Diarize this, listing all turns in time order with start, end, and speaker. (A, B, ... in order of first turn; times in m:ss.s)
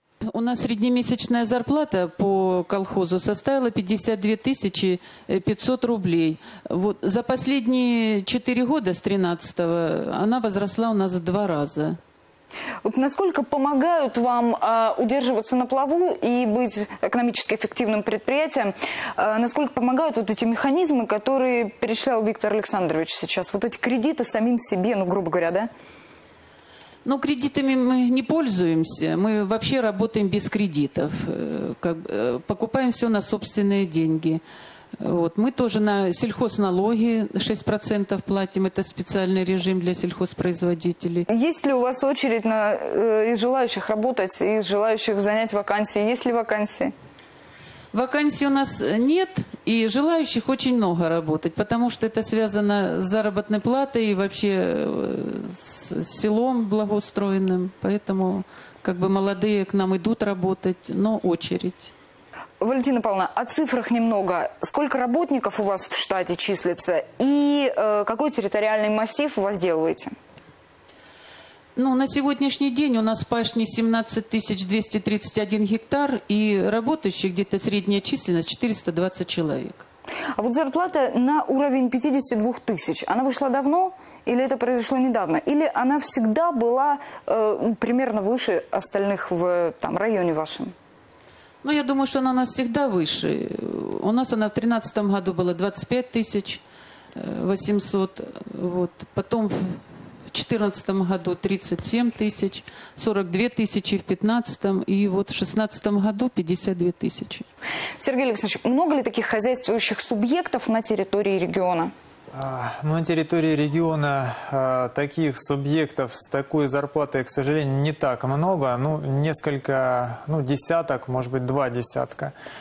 0:00.3-0:12.0 A
0:12.8-0:25.7 B
0:27.0-0:34.4 A
0:35.0-0:41.3 A
0:41.3-0:46.9 B
0:47.9-1:01.9 A
1:02.6-1:10.1 B
1:11.8-1:19.8 A
1:20.4-1:30.7 B
1:31.6-1:36.6 A
1:37.2-1:47.4 A
1:48.0-1:51.9 B
1:52.3-2:02.3 C